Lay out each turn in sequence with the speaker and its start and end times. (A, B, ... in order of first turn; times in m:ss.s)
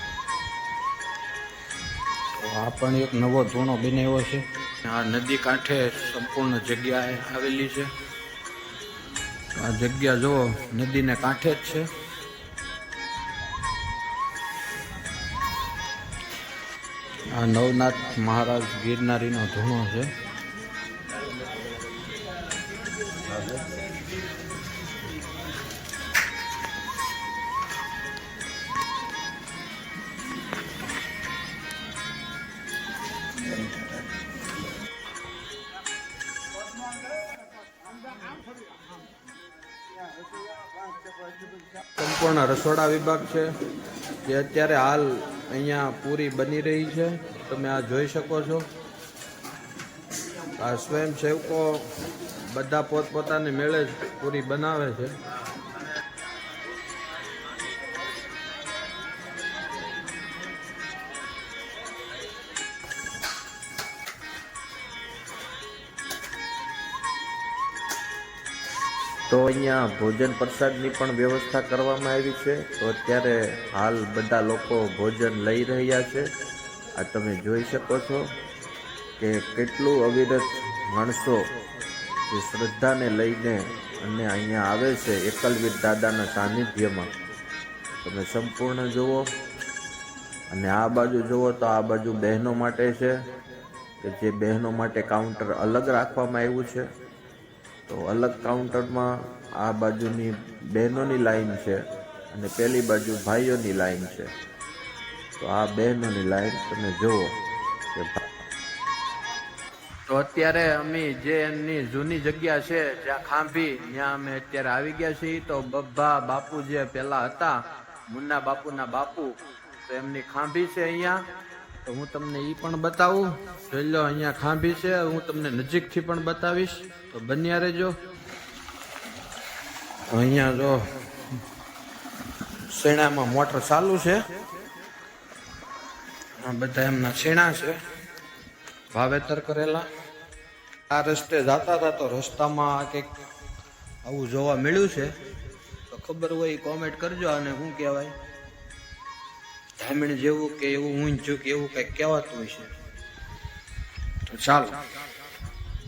0:02.4-0:07.9 A
0:09.6-0:11.9 A
0:17.3-0:20.1 A
0:42.0-0:43.5 A
0:44.2-0:48.7 A
0:50.6-0:51.9 A
0:52.4-0:55.1 A
1:09.3-1:16.2 A
1:17.0-1:18.3 A
1:19.2-1:21.4 A
1:22.3-1:27.1 A
1:28.0-1:29.2 A
1:30.5-1:33.1 A
1:34.0-1:36.9 A
1:37.9-1:44.3 A
1:45.4-1:47.3 A
1:48.0-1:48.2 A
1:50.1-1:57.6 A
1:58.1-2:01.2 A
2:01.8-2:08.0 A
2:10.1-2:10.8 A
2:12.7-2:14.2 A
2:16.4-2:17.8 A
2:18.9-2:19.9 A
2:20.9-2:23.1 A
2:24.0-2:25.1 A
2:25.9-2:28.1 A
2:29.8-2:32.7 A
2:34.3-2:34.8 A